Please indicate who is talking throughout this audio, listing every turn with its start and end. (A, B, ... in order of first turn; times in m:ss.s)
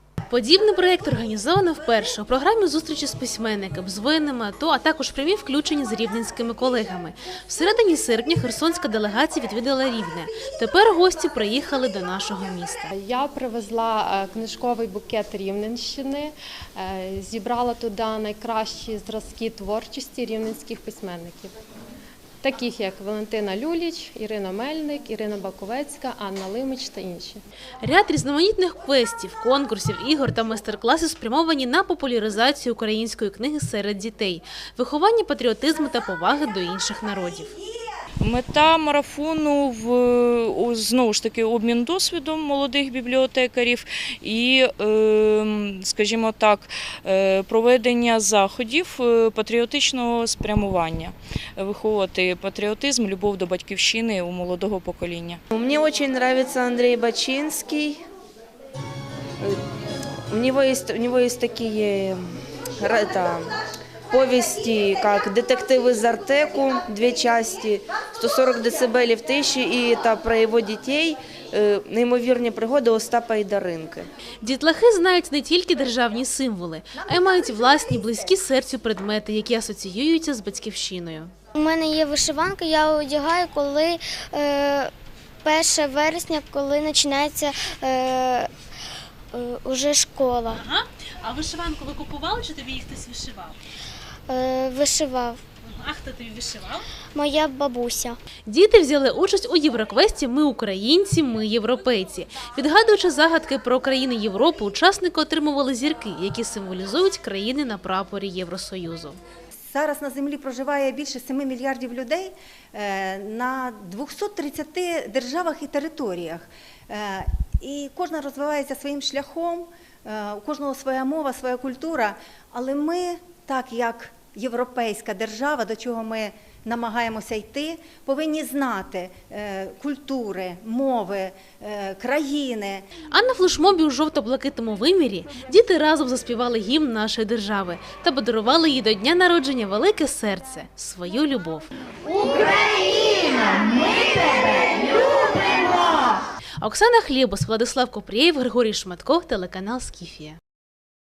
0:00.3-0:12.9 A
0:12.9-0:21.5 B
0:22.4-0:27.4 B
0:27.8-0:37.6 A
0:38.2-0:55.4 C
0:55.5-0:58.0 D
1:00.3-1:03.6 D
1:04.1-1:14.1 D
1:14.4-1:21.3 A
1:21.6-1:24.9 E
1:25.4-1:28.5 E
1:29.3-1:30.6 E
1:30.5-1:33.6 A
1:34.3-1:35.4 E
1:35.6-1:36.9 A
1:37.2-1:38.2 E
1:38.5-1:49.2 A
1:49.7-2:12.9 F
2:13.1-2:21.7 A
2:26.6-2:30.4 A